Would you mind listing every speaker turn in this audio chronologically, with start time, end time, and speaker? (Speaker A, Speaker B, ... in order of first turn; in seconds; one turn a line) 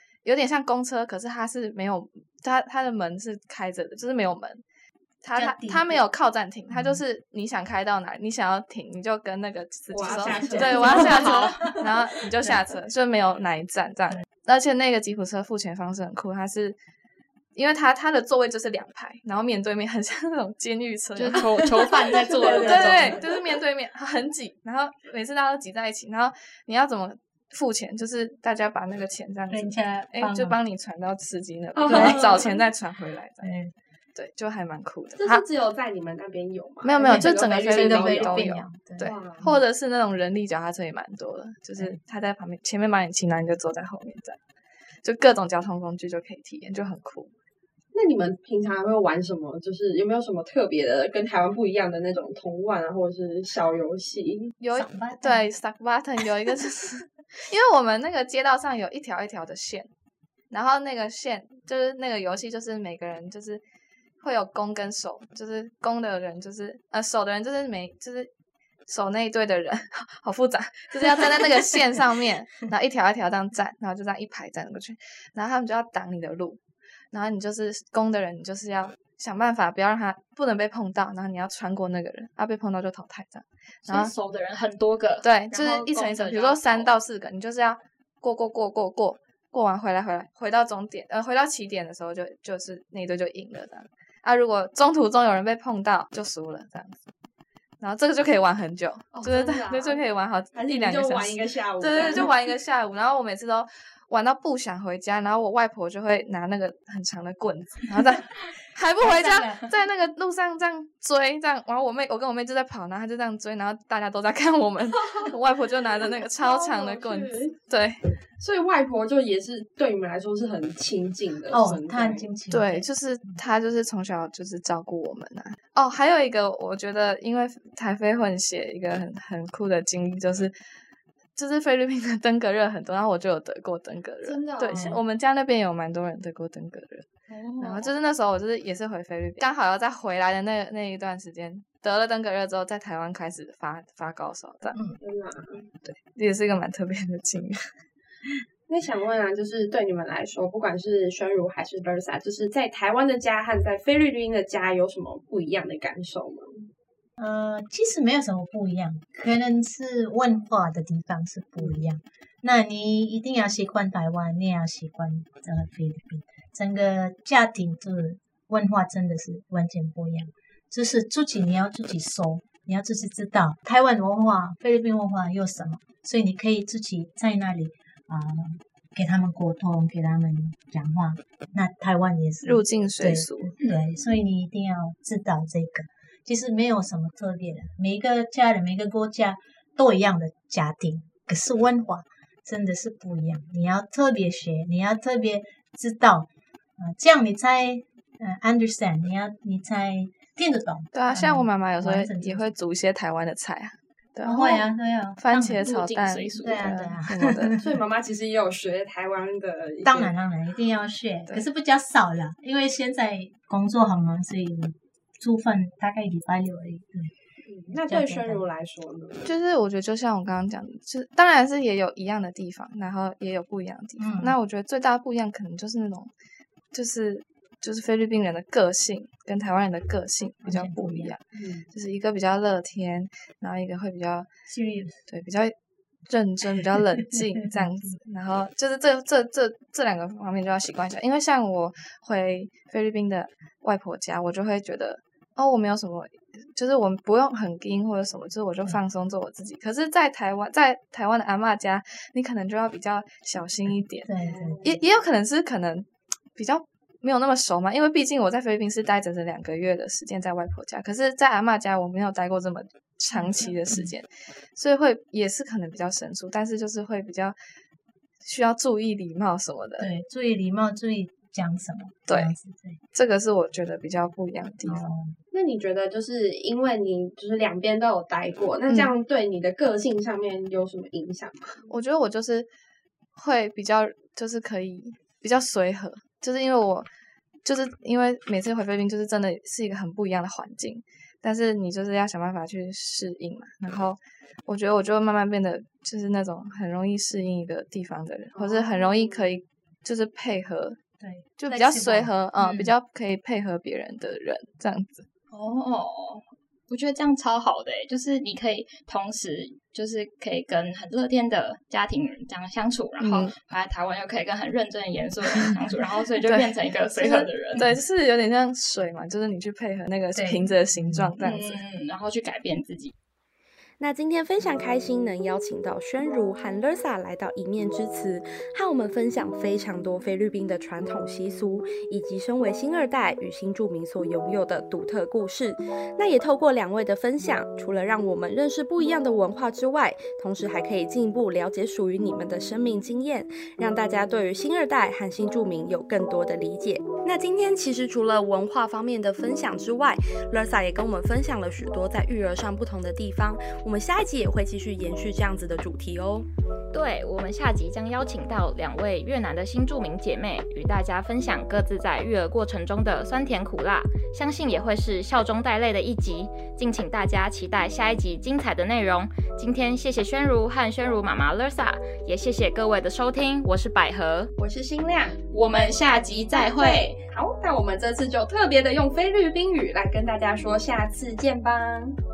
Speaker A: 0.2-4.6
Speaker A: 5.2-16.8
Speaker B: 5.3-6.0
Speaker B: 6.7-7.0
Speaker C: 9.9-11.8
Speaker D: 10.0-11.7
Speaker B: 10.4-12.6
Speaker A: 17.5-21.6
Speaker D: 21.1-23.2
Speaker B: 21.4-23.3
Speaker A: 22.5-33.5
Speaker B: 29.5-30.6
Speaker C: 31.8-32.5
Speaker B: 31.9-32.5
Speaker B: 33.4-33.7
Speaker A: 34.1-35.4
Speaker C: 35.2-38.5
Speaker A: 36.8-44.4
Speaker B: 37.0-39.6
Speaker C: 39.0-39.5
Speaker A: 45.0-47.3
Speaker C: 47.9-54.5
Speaker A: 54.6-59.9
Speaker B: 54.7-55.5
Speaker A: 60.5-63.6
Speaker A: 64.2-68.3
Speaker A: 68.9-76.6
Speaker A: 77.1-84.1
Speaker D: 83.8-86.9
Speaker A: 85.2-97.0
Speaker A: 97.8-118.0
Speaker C: 99.2-100.0
Speaker C: 100.5-102.3
Speaker B: 109.0-109.7
Speaker C: 116.4-117.5
Speaker C: 118.4-122.2
Speaker B: 121.5-122.9
Speaker A: 122.5-130.5
Speaker A: 131.3-137.1
Speaker C: 134.2-135.0
Speaker C: 137.3-137.8
Speaker A: 137.6-144.8
Speaker C: 145.0-145.7
Speaker A: 145.8-147.6
Speaker C: 148.7-156.7
Speaker B: 157.2-196.3
Speaker A: 182.4-183.5
Speaker B: 196.8-202.5
Speaker A: 200.9-204.6
Speaker B: 204.2-205.6
Speaker A: 205.2-207.6
Speaker D: 205.6-206.9
Speaker B: 206.4-207.8
Speaker C: 207.6-210.1
Speaker B: 209.8-217.1
Speaker C: 217.5-219.2
Speaker B: 217.7-218.4
Speaker A: 219.2-226.1
Speaker B: 224.0-224.3
Speaker A: 226.7-234.3
Speaker B: 230.4-231.2
Speaker B: 234.5-235.0
Speaker A: 235.1-235.5
Speaker A: 236.1-254.1
Speaker B: 236.6-237.8
Speaker B: 254.0-254.7
Speaker C: 254.2-254.8
Speaker A: 254.6-267.4
Speaker B: 263.1-263.9
Speaker A: 268.2-269.9
Speaker B: 269.8-272.8
Speaker A: 272.1-272.3
Speaker A: 272.9-274.9
Speaker B: 274.6-275.1
Speaker C: 275.3-281.7
Speaker A: 281.7-282.5
Speaker A: 283.1-286.9
Speaker A: 287.4-300.8
Speaker C: 298.3-299.3
Speaker B: 301.0-302.7
Speaker A: 301.4-305.1
Speaker D: 305.3-317.7
Speaker A: 313.0-313.3
Speaker A: 316.2-316.5
Speaker A: 317.5-321.6
Speaker B: 320.1-321.1
Speaker D: 321.2-322.9
Speaker E: 323.8-356.3
Speaker F: 356.7-374.3
Speaker D: 374.4-377.0
Speaker C: 377.0-381.9